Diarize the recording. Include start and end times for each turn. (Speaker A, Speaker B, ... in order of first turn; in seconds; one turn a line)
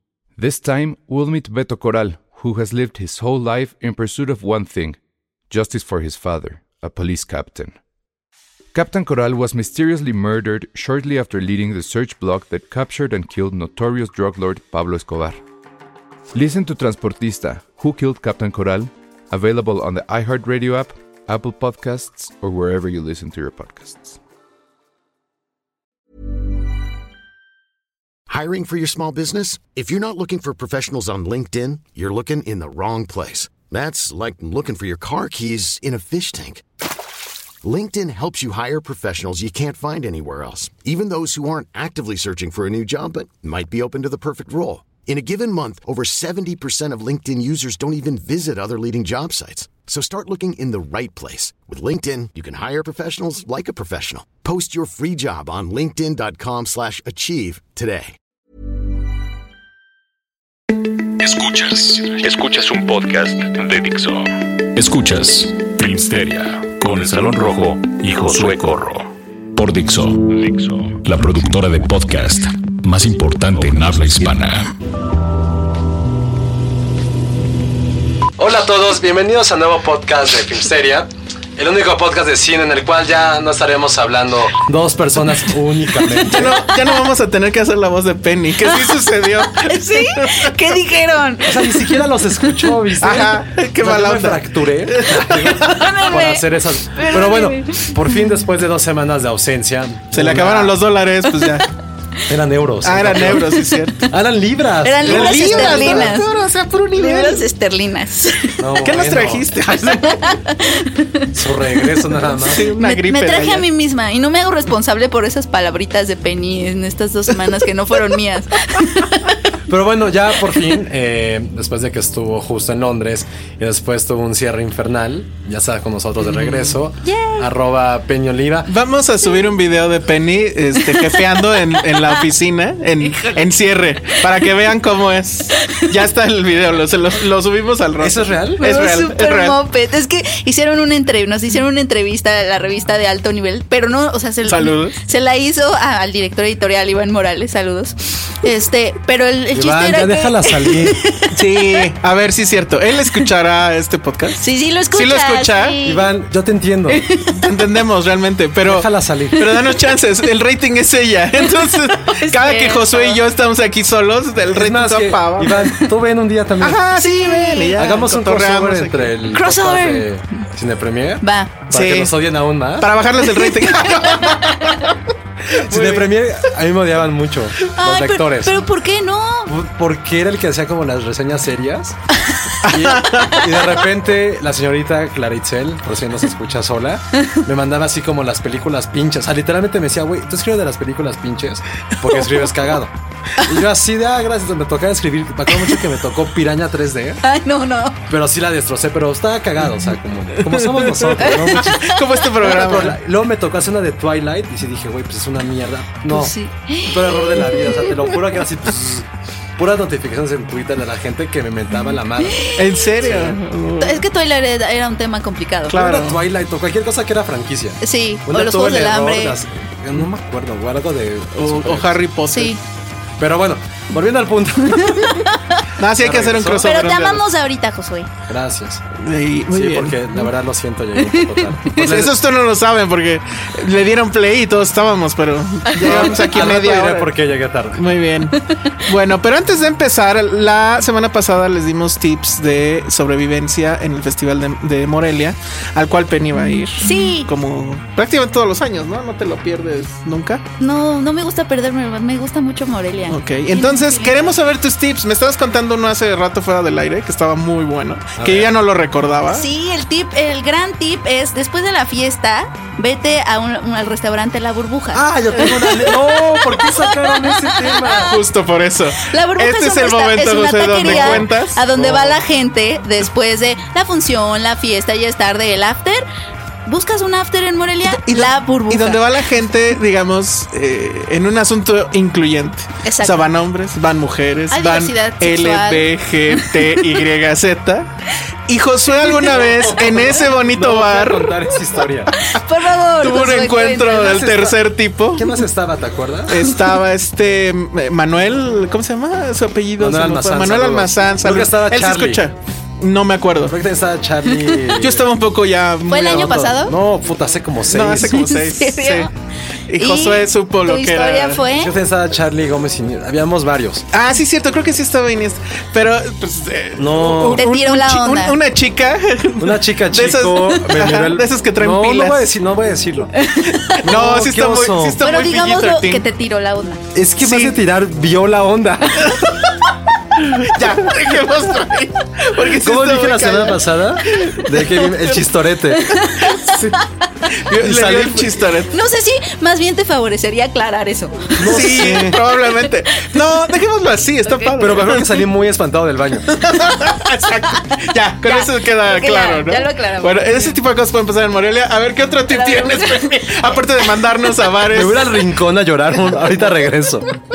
Speaker A: 0.4-5.0
Speaker A: 5.5-7.8
Speaker A: 8.7-15.4
Speaker A: 16.3-24.2
Speaker B: 28.3-36.6
Speaker B: 37.6-58.1
Speaker C: 61.2-74.7
Speaker D: 78.4-86.6
Speaker E: 86.2-90.5
Speaker F: 88.6-92.7
Speaker D: 91.4-100.8
Speaker E: 93.0-96.0
Speaker F: 95.6-98.4
Speaker E: 100.1-101.7
Speaker D: 102.3-103.5
Speaker E: 102.8-104.1
Speaker D: 104.1-106.2
Speaker F: 104.8-106.3
Speaker E: 105.0-107.4
Speaker F: 106.9-108.5
Speaker D: 108.6-109.5
Speaker E: 108.7-110.4
Speaker F: 109.9-112.0
Speaker D: 111.3-112.6
Speaker E: 112.4-113.6
Speaker F: 112.5-119.4
Speaker D: 119.7-128.7
Speaker E: 126.2-126.8
Speaker F: 127.0-127.5
Speaker E: 128.7-139.6
Speaker F: 130.8-132.3
Speaker F: 133.0-133.4
Speaker F: 135.6-135.9
Speaker D: 138.0-138.6
Speaker F: 138.6-151.8
Speaker E: 144.4-144.9
Speaker D: 149.5-151.0
Speaker E: 151.3-154.4
Speaker F: 154.4-156.1
Speaker E: 154.9-155.8
Speaker D: 155.8-157.1
Speaker F: 156.9-157.5
Speaker E: 157.3-165.7
Speaker D: 158.6-159.4
Speaker F: 161.5-163.2
Speaker D: 164.5-166.8
Speaker F: 165.6-165.9
Speaker E: 166.6-169.1
Speaker F: 166.9-167.8
Speaker D: 167.8-172.9
Speaker F: 169.3-170.1
Speaker F: 171.2-171.6
Speaker E: 171.7-172.2
Speaker E: 172.8-174.9
Speaker F: 173.2-174.7
Speaker D: 175.6-178.6
Speaker E: 175.7-176.1
Speaker F: 177.7-179.5
Speaker D: 179.5-181.9
Speaker E: 182.6-183.4
Speaker D: 182.6-197.2
Speaker F: 182.9-183.4
Speaker F: 197.2-198.0
Speaker D: 198.1-206.3
Speaker E: 200.4-203.0
Speaker F: 201.2-202.1
Speaker F: 206.1-207.9
Speaker D: 206.9-213.4
Speaker F: 211.8-213.1
Speaker E: 212.6-214.0
Speaker F: 213.8-215.7
Speaker E: 215.7-216.2
Speaker D: 215.7-222.0
Speaker F: 217.8-219.4
Speaker E: 221.4-222.6
Speaker F: 222.3-222.6
Speaker D: 223.2-225.2
Speaker F: 224.8-225.6
Speaker E: 225.8-227.2
Speaker D: 226.0-226.7
Speaker F: 226.6-228.1
Speaker D: 228.3-228.8
Speaker E: 229.0-230.3
Speaker D: 229.5-232.1
Speaker F: 231.0-231.7
Speaker E: 231.7-237.1
Speaker D: 235.8-237.8
Speaker E: 237.7-250.4
Speaker F: 238.3-238.6
Speaker F: 246.4-247.3
Speaker F: 250.6-254.3
Speaker E: 253.1-259.4
Speaker D: 258.2-258.5
Speaker F: 259.3-268.2
Speaker D: 264.9-268.1
Speaker E: 268.0-271.6
Speaker F: 269.1-276.0
Speaker D: 270.8-272.1
Speaker F: 276.6-279.2
Speaker E: 277.9-287.9
Speaker F: 282.8-283.2
Speaker F: 284.5-287.0
Speaker E: 288.5-291.4
Speaker F: 288.9-289.6
Speaker D: 289.4-292.1
Speaker F: 292.1-294.2
Speaker E: 293.0-295.4
Speaker D: 294.0-294.5
Speaker D: 295.1-296.4
Speaker E: 296.3-303.6
Speaker D: 299.8-302.2
Speaker D: 303.4-305.0
Speaker F: 304.3-304.8
Speaker E: 304.8-306.5
Speaker F: 305.9-306.7
Speaker D: 306.1-308.2
Speaker E: 307.6-309.1
Speaker F: 308.0-309.1
Speaker E: 309.7-311.4
Speaker F: 309.8-311.7
Speaker D: 311.6-313.9
Speaker E: 313.9-322.3
Speaker D: 316.8-317.4
Speaker F: 317.4-318.4
Speaker D: 319.4-323.1
Speaker F: 323.2-323.8
Speaker D: 323.8-325.0
Speaker E: 323.8-326.0
Speaker F: 325.0-326.8
Speaker D: 326.9-329.1
Speaker E: 327.2-327.6
Speaker E: 329.0-329.5
Speaker E: 330.2-335.2
Speaker D: 332.6-335.9
Speaker F: 335.8-336.9
Speaker E: 336.1-336.6
Speaker E: 337.3-338.7
Speaker D: 337.6-338.4
Speaker F: 338.7-343.4
Speaker D: 341.4-342.2
Speaker E: 341.4-345.3
Speaker F: 344.2-344.5
Speaker D: 344.6-346.2
Speaker E: 346.3-355.2
Speaker F: 347.5-350.6
Speaker F: 352.3-353.6
Speaker D: 354.7-357.1